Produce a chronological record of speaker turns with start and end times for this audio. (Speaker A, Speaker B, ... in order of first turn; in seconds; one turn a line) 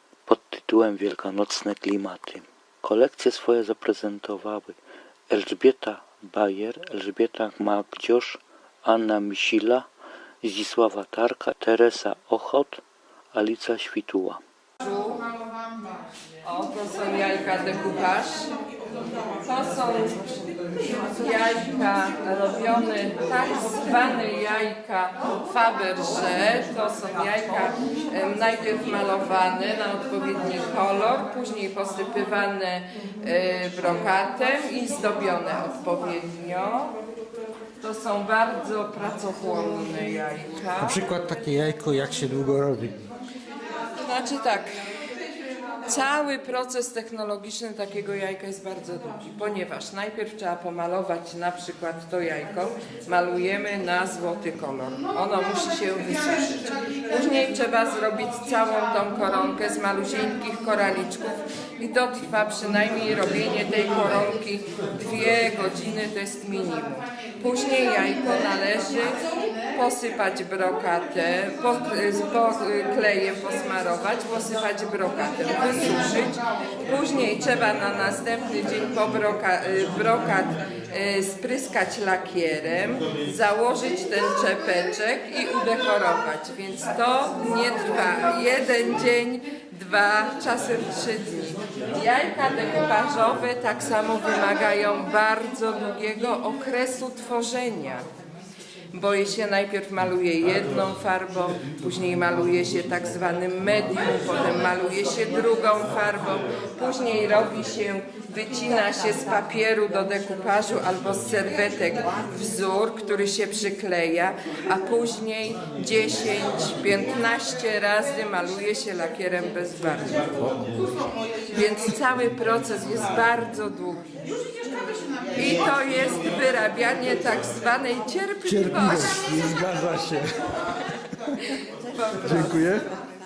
Speaker A: 0.3-4.8
Speaker A: 5.3-9.9
Speaker A: 10.4-12.8
Speaker A: 13.3-14.4
Speaker B: 14.8-15.2
Speaker B: 16.4-18.4
Speaker B: 19.4-20.5
Speaker B: 21.1-36.9
Speaker B: 37.8-41.0
Speaker C: 40.8-43.0
Speaker B: 44.0-44.8
Speaker B: 45.9-56.4
Speaker B: 57.1-69.2
Speaker B: 69.7-98.1
Speaker B: 98.9-120.2
Speaker B: 121.5-124.1
Speaker B: 125.3-129.6
Speaker C: 128.4-130.3
Speaker B: 131.9-132.8
Speaker C: 132.2-132.9